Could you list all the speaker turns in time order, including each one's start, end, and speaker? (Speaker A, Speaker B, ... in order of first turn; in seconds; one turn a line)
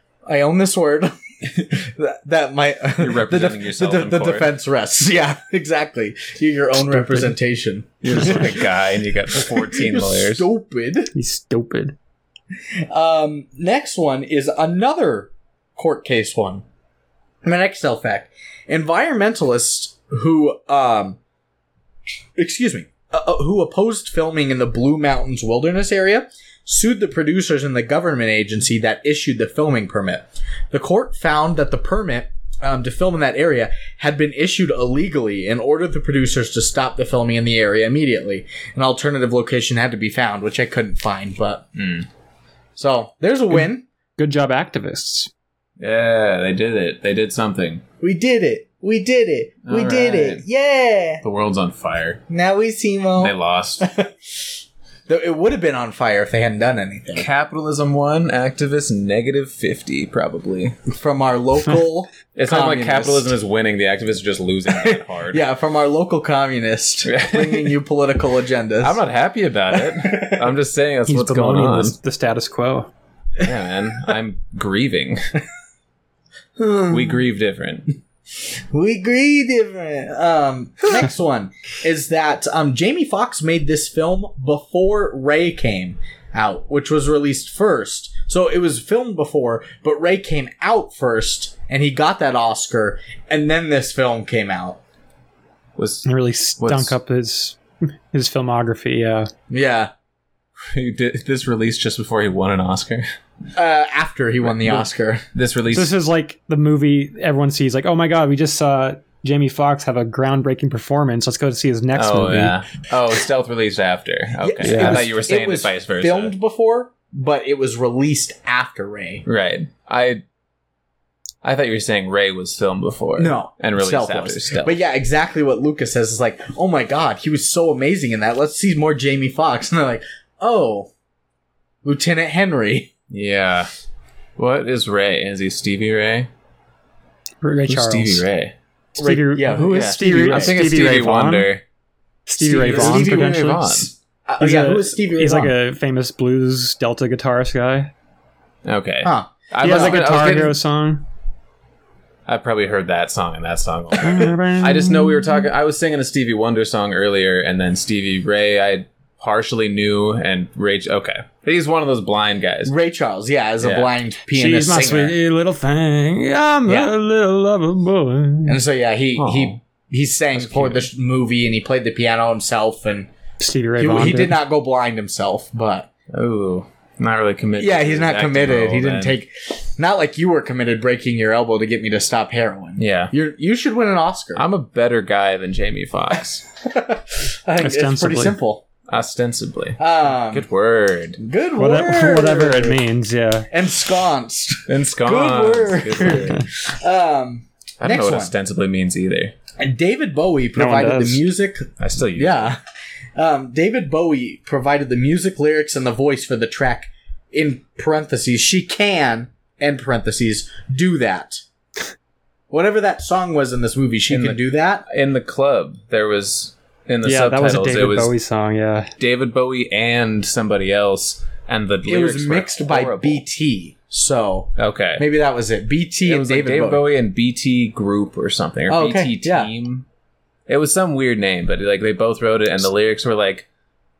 Speaker A: 0.3-8.7
Speaker B: 3.0-4.5
Speaker C: 6.9-7.3
Speaker B: 8.0-10.5
Speaker A: 9.3-11.1
Speaker C: 11.1-11.9
Speaker A: 12.9-16.6
Speaker A: 17.4-21.2
Speaker A: 22.4-41.7
Speaker B: 41.8-42.1
Speaker A: 42.8-43.9
Speaker C: 44.2-45.3
Speaker B: 45.8-47.8
Speaker A: 48.0-51.2
Speaker B: 49.7-50.5
Speaker B: 51.2-52.2
Speaker A: 52.3-54.1
Speaker B: 53.2-53.9
Speaker A: 55.1-57.3
Speaker B: 57.1-60.8
Speaker A: 60.9-63.3
Speaker B: 62.4-65.4
Speaker A: 64.7-69.0
Speaker B: 67.0-67.8
Speaker B: 68.8-72.0
Speaker A: 69.8-70.5
Speaker C: 71.1-72.9
Speaker B: 73.4-75.2
Speaker A: 76.6-77.2
Speaker B: 76.9-78.0
Speaker A: 78.7-94.8
Speaker B: 95.8-97.0
Speaker C: 96.1-97.6
Speaker C: 98.1-99.3
Speaker A: 99.5-99.9
Speaker B: 100.6-103.1
Speaker A: 103.5-105.2
Speaker B: 104.4-106.0
Speaker C: 105.7-112.6
Speaker B: 111.9-116.3
Speaker A: 114.4-119.3
Speaker C: 114.6-115.0
Speaker B: 119.2-120.2
Speaker B: 121.4-124.8
Speaker A: 123.2-130.9
Speaker A: 131.8-132.9
Speaker B: 133.1-133.7
Speaker B: 134.4-136.3
Speaker C: 137.4-138.3
Speaker B: 137.7-138.6
Speaker C: 139.0-141.5
Speaker A: 139.0-140.6
Speaker B: 139.7-141.6
Speaker C: 142.3-143.6
Speaker A: 142.4-145.5
Speaker B: 142.7-143.9
Speaker C: 144.4-147.9
Speaker B: 148.7-150.6
Speaker A: 149.0-149.9
Speaker C: 149.6-151.0
Speaker B: 152.3-162.7
Speaker C: 154.0-155.4
Speaker A: 162.7-165.2
Speaker B: 163.6-163.9
Speaker C: 164.3-168.6
Speaker A: 168.5-173.1
Speaker B: 169.2-169.6
Speaker B: 170.3-170.9
Speaker C: 173.4-174.4
Speaker A: 173.8-175.9
Speaker B: 176.1-179.2
Speaker A: 177.6-184.4
Speaker B: 182.8-183.1
Speaker B: 184.3-186.4
Speaker A: 186.7-188.6
Speaker C: 187.6-188.4
Speaker B: 188.9-191.2
Speaker A: 189.8-190.5
Speaker A: 191.2-192.8
Speaker C: 191.6-193.5
Speaker A: 193.5-198.3
Speaker B: 194.7-196.4
Speaker B: 197.8-199.3
Speaker A: 199.6-202.6
Speaker C: 200.6-201.2
Speaker B: 201.8-202.6
Speaker A: 203.2-211.4
Speaker A: 212.5-214.8
Speaker B: 214.1-218.1
Speaker C: 217.0-218.9
Speaker B: 219.0-223.2
Speaker A: 221.8-226.8
Speaker B: 224.6-225.1
Speaker B: 226.0-229.9
Speaker A: 228.7-229.5
Speaker B: 230.5-233.5